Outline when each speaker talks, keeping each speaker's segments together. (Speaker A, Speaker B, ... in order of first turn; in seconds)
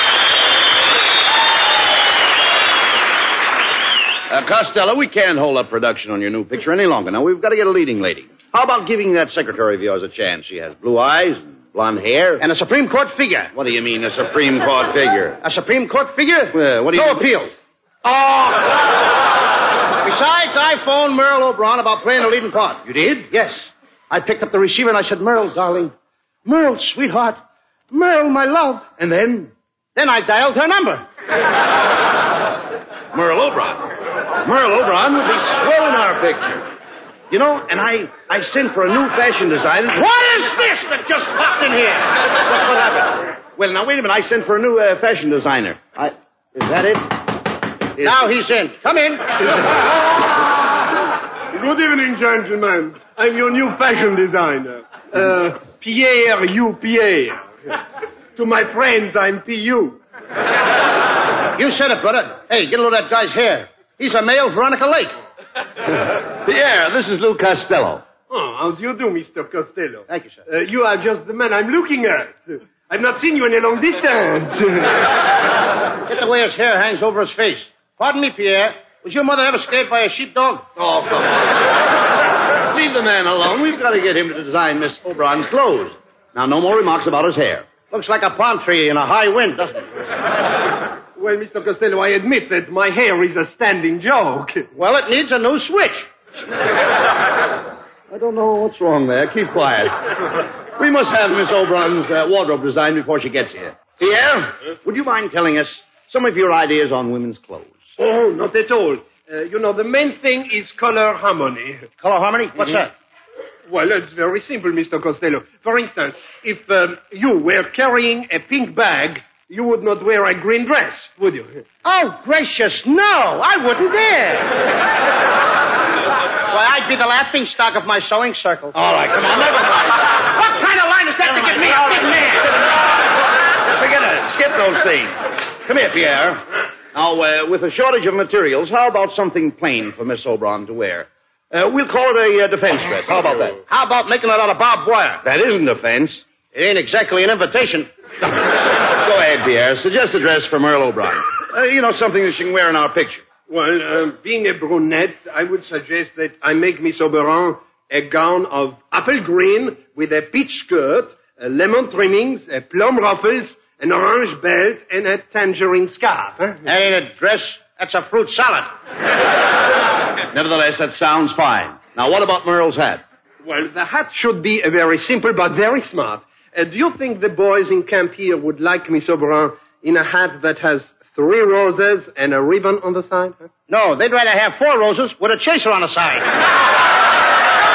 Speaker A: 4.3-12.4, 13.5-15.4, 16.5-17.2, 29.0-29.5, 33.1-33.9, 34.4-36.7, 37.3-40.0, 43.5-47.0, 66.4-68.0, 80.8-81.5, 82.7-87.7, 98.1-100.1, 100.7-107.8, 128.8-129.6, 133.7-136.4, 136.9-143.6, 145.2-146.2, 148.9-153.3, 170.3-173.0
Speaker B: 12.4-13.5, 15.4-17.5, 20.0-25.9, 26.4-27.4, 27.9-28.9, 29.9-31.0, 39.9-42.8, 48.0-49.7, 61.5-65.1, 70.1-70.4, 76.0-80.7, 87.8-89.9, 94.7-96.1, 112.0-112.9, 121.8-124.5, 126.5-128.8, 130.3-132.5, 143.7-145.2, 146.5-147.9, 166.6-168.7, 183.7-186.3
Speaker C: 51.5-57.4, 58.4-60.0, 68.3-75.0, 91.2-94.7, 108.0-111.8, 113.7-121.6, 153.4-166.6, 173.4-183.5